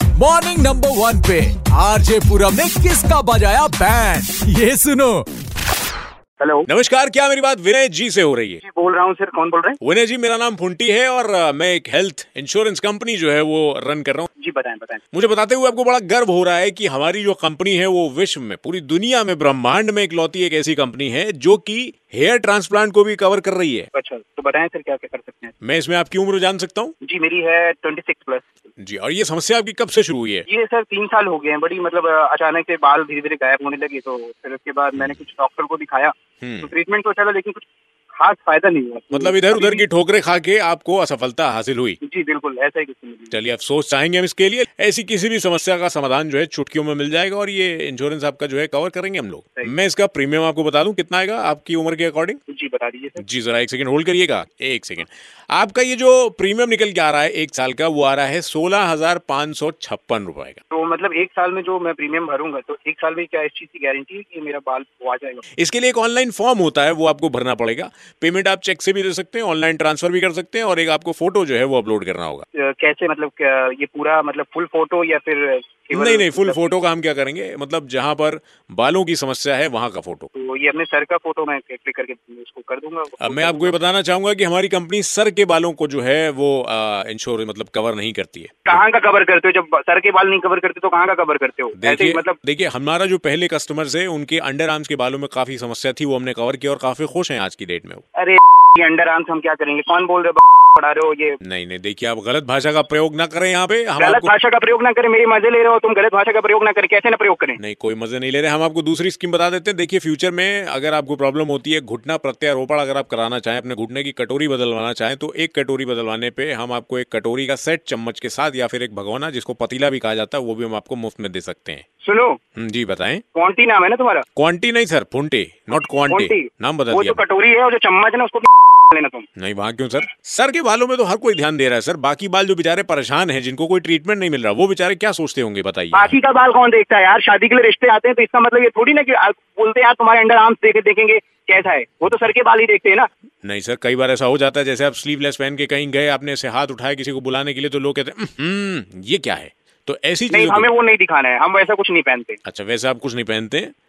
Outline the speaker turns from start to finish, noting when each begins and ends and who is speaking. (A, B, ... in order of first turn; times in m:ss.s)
0:00.2-0:05.3 A
0:06.4-0:06.7 B
0:06.7-0:08.6 C
0:08.6-0:09.8 B
0:09.8-0:14.3 C
0:14.4-0:15.0 B
0:15.1-0:23.9 C
0:23.9-0:25.5 B
0:25.6-0:26.9 C
0:27.0-0:28.6 B
0:28.8-0:30.5 C
0:30.5-0:37.6 B
0:36.4-0:36.7 C
0:38.2-0:39.8 B
0:39.1-0:42.0 C
0:42.0-0:43.4 B
0:43.3-0:52.4 C
0:52.5-0:53.2 B
0:53.2-1:00.6 C
1:00.7-1:05.4 B
1:05.6-1:12.4 C
1:12.6-1:16.6 B
1:15.9-1:20.3 C
1:20.4-1:23.8 B
1:23.2-1:28.8 C
1:28.7-1:32.4 B
1:31.8-1:38.0 C
1:38.2-1:41.4 B
1:41.4-1:44.3 C
1:44.0-1:47.6 B
1:47.6-2:01.8 C
2:02.0-2:02.4 B
2:02.6-2:03.2 C
2:03.3-2:04.2 B
2:04.4-2:07.2 C
2:06.1-2:09.3 B
2:09.4-2:16.1 C
2:15.9-2:23.1 B
2:23.4-2:30.7 C
2:30.3-2:32.4 B
2:32.5-2:33.7 C